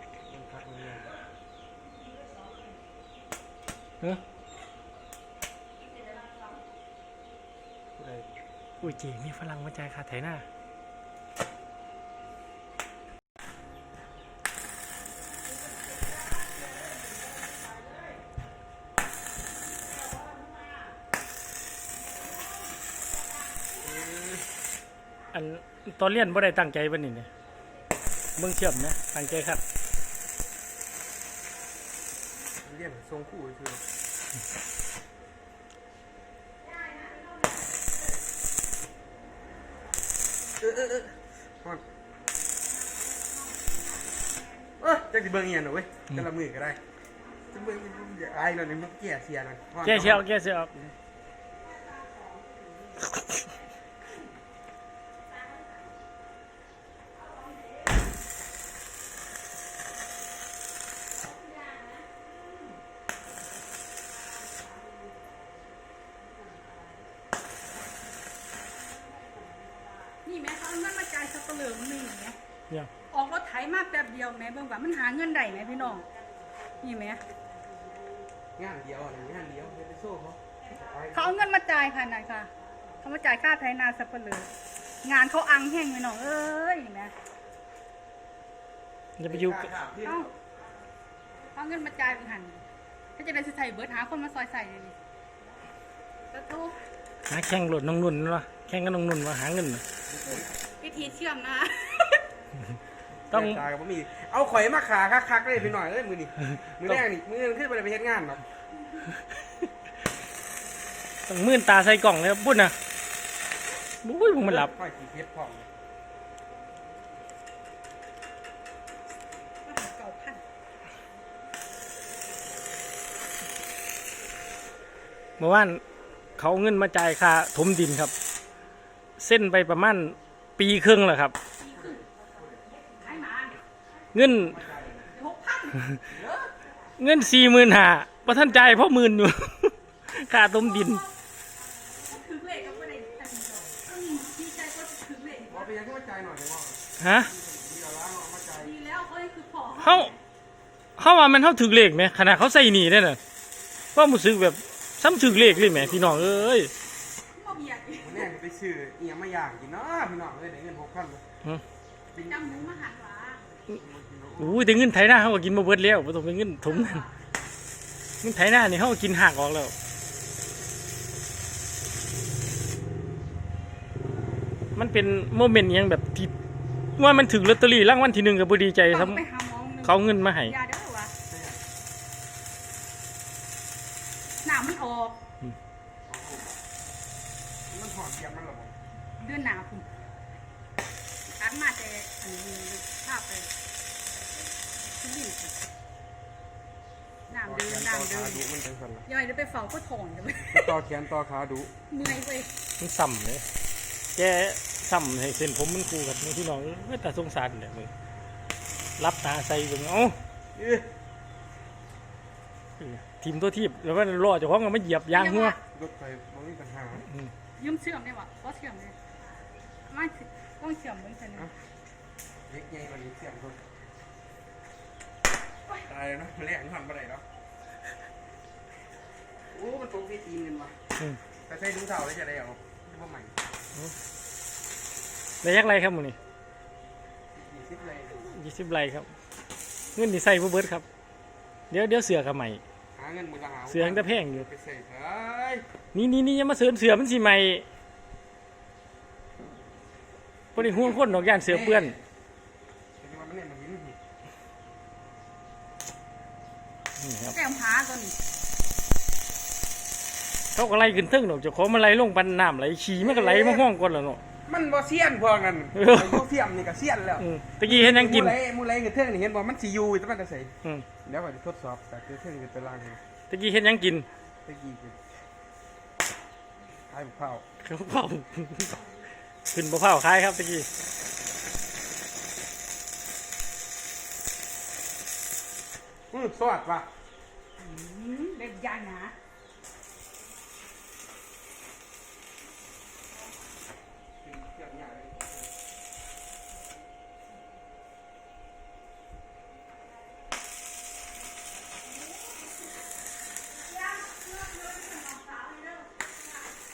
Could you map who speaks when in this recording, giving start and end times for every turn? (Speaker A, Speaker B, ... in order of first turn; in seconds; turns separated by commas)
Speaker A: 0.3-1.1, Speaker A: 8.0-8.3, Speaker B: 8.8-10.5, Speaker A: 23.8-24.5, Speaker B: 25.3-27.3, Speaker B: 28.4-29.6, Speaker A: 32.6-33.8, Speaker A: 40.6-41.8, Speaker C: 42.9-43.8, Speaker C: 44.3-44.5, Speaker A: 44.8-46.8, Speaker A: 47.5-50.2, Speaker B: 49.8-50.7, Speaker C: 70.2-72.4, Speaker C: 73.1-76.1, Speaker C: 76.8-77.2, Speaker A: 78.6-81.4, Speaker C: 81.1-82.5, Speaker C: 83.0-84.5, Speaker C: 85.0-87.1, Speaker B: 89.2-89.7, Speaker A: 89.3-90.3, Speaker C: 90.0-90.3, Speaker C: 91.5-92.6, Speaker C: 93.2-95.0, Speaker C: 96.3-96.8, Speaker B: 97.3-99.8, Speaker A: 100.1-100.6, Speaker C: 100.8-102.3, Speaker A: 103.3-108.4, Speaker B: 103.3-103.6, Speaker B: 111.3-112.7, Speaker B: 114.0-114.7, Speaker A: 114.4-115.7, Speaker C: 119.6-120.4, Speaker B: 125.4-125.8, Speaker B: 126.4-128.1, Speaker B: 129.2-131.4, Speaker C: 131.6-132.1, Speaker A: 131.7-132.6, Speaker C: 132.7-133.6, Speaker B: 134.1-134.6, Speaker A: 134.2-135.1, Speaker C: 135.1-135.9, Speaker A: 136.1-136.5, Speaker B: 137.0-141.1, Speaker C: 141.9-145.6, Speaker A: 145.5-148.7, Speaker B: 147.0-147.3, Speaker C: 148.6-150.2, Speaker B: 149.8-150.1, Speaker B: 151.0-153.2, Speaker B: 153.9-156.7, Speaker A: 155.1-156.6, Speaker C: 157.3-158.3, Speaker A: 158.0-161.2, Speaker A: 162.1-162.7, Speaker C: 162.2-163.4, Speaker A: 163.7-164.7, Speaker B: 164.4-167.0, Speaker C: 166.7-167.1, Speaker B: 168.2-169.7, Speaker B: 174.8-176.3, Speaker B: 177.0-179.2, Speaker C: 178.9-181.1, Speaker B: 179.8-180.5, Speaker A: 181.3-181.6, Speaker C: 184.4-185.2, Speaker A: 186.1-186.6, Speaker A: 187.7-188.7, Speaker C: 189.2-189.9, Speaker C: 191.4-193.5, Speaker C: 195.0-195.6, Speaker C: 197.3-198.4, Speaker A: 197.4-199.1, Speaker C: 199.1-200.7, Speaker A: 200.5-201.8, Speaker C: 201.9-202.5, Speaker B: 202.8-203.4, Speaker B: 204.2-207.9, Speaker B: 209.0-210.2, Speaker A: 210.6-210.9, Speaker B: 212.8-215.6, Speaker C: 215.1-215.6, Speaker A: 215.7-217.1, Speaker B: 217.0-217.3, Speaker C: 217.6-218.9, Speaker C: 219.9-221.5, Speaker A: 222.5-223.6, Speaker A: 225.7-227.2, Speaker A: 229.5-230.8, Speaker A: 231.5-233.3, Speaker B: 235.4-236.2, Speaker A: 237.3-238.3, Speaker B: 238.2-239.1, Speaker B: 239.9-240.8, Speaker B: 241.7-242.6, Speaker A: 243.0-245.7, Speaker B: 243.7-244.5, Speaker B: 245.9-247.7, Speaker B: 250.6-252.0, Speaker A: 250.6-252.0, Speaker A: 253.0-254.0, Speaker B: 257.0-257.4, Speaker C: 257.3-258.2, Speaker B: 260.6-264.2, Speaker A: 263.0-263.6, Speaker A: 264.5-273.0, Speaker B: 265.8-266.2, Speaker B: 267.2-268.4, Speaker B: 273.3-274.1, Speaker A: 274.5-275.1, Speaker A: 276.9-277.4, Speaker B: 277.6-278.8, Speaker B: 279.5-280.7, Speaker A: 286.1-286.9, Speaker C: 287.6-289.1, Speaker A: 294.2-295.5, Speaker C: 303.6-305.9